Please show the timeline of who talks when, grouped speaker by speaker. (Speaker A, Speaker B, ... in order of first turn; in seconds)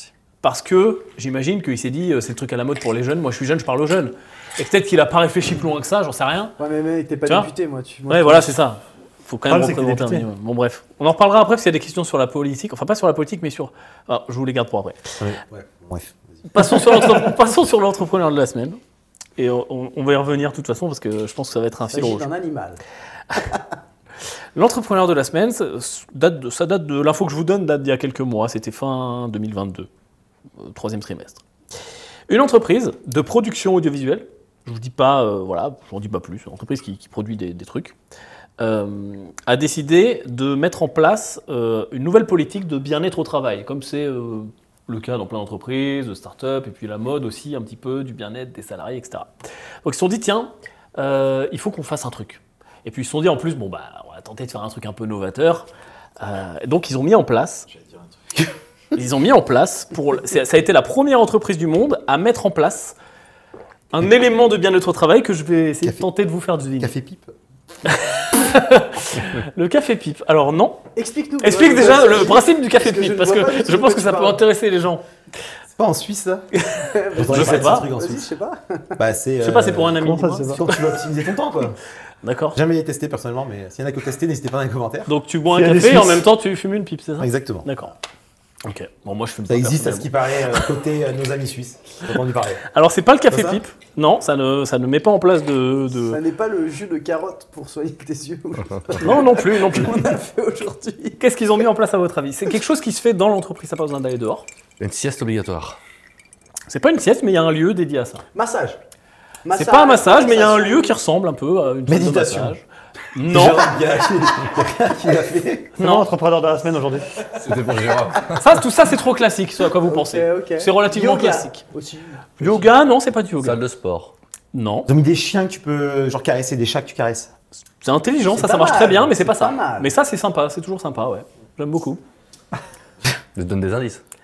Speaker A: 0.4-6.6, 8.1-15.0, 16.5-18.8, 19.4-22.3, 24.6-29.9, 30.6-31.4, 32.3-38.0, 38.6-49.3, 49.9-55.7, 56.2-57.7, 58.9-63.0, 63.9-66.9, 67.9-70.8, 71.4-75.0, 76.6-77.9, 79.4-80.7, 82.2-82.6, 85.1-87.9, 88.6-90.1, 92.7-96.2, 99.0-100.0, 101.2-104.5, 106.7-108.2, 109.5-112.6, 113.2-113.7, 115.8-116.1, 118.4-121.6, 122.4-123.6, 124.5-124.9, 127.8-132.0
Speaker B: 6.6-8.5, 21.9-22.8, 71.0-74.2, 76.8-79.0, 96.0-101.2, 108.3-108.8, 109.5-110.9, 119.8-122.7, 128.3-129.9
Speaker C: 9.5-10.3, 80.0-80.6, 85.5-86.2, 115.8-117.2
Speaker D: 15.2-17.0, 66.8-67.3, 73.8-74.4, 75.7-76.5, 77.1-78.3, 79.0-80.0, 80.5-81.8, 82.5-85.1, 87.2-87.7, 89.5-92.6, 93.3-93.6, 111.9-112.6, 113.2-115.8, 124.9-127.3
Speaker E: 104.8-105.8, 117.3-118.5, 123.4-124.1, 133.4-134.0